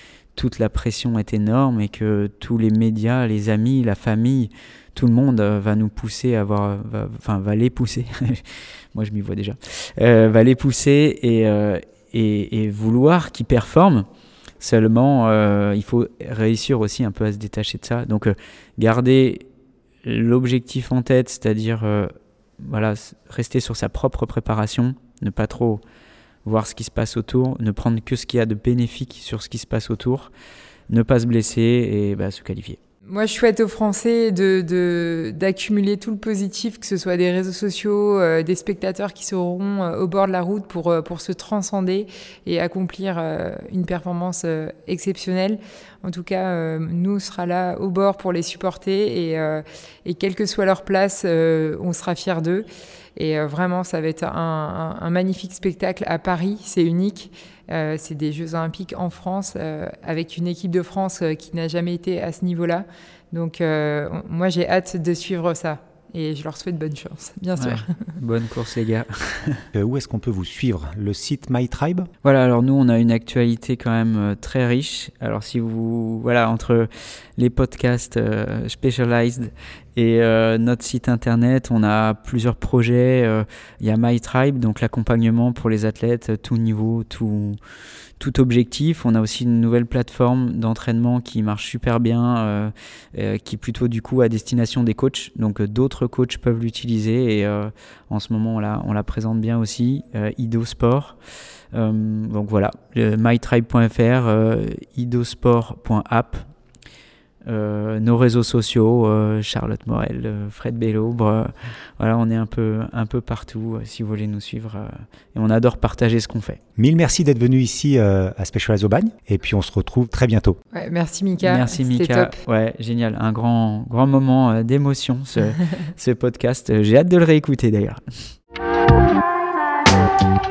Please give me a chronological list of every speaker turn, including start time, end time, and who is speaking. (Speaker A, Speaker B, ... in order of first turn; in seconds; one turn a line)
Speaker A: 0.3-14.1
Speaker A: 14.6-19.4
Speaker A: 20.0-25.8
Speaker A: 26.4-30.3
Speaker A: 30.9-32.8
Speaker B: 33.1-68.0
Speaker A: 67.6-69.6
Speaker C: 69.7-72.1
Speaker A: 72.2-87.6
Speaker A: 88.2-101.2
Speaker A: 101.7-106.5
Speaker A: 107.5-116.6
Speaker C: 116.8-120.6
Speaker B: 120.7-122.3
Speaker A: 121.4-128.3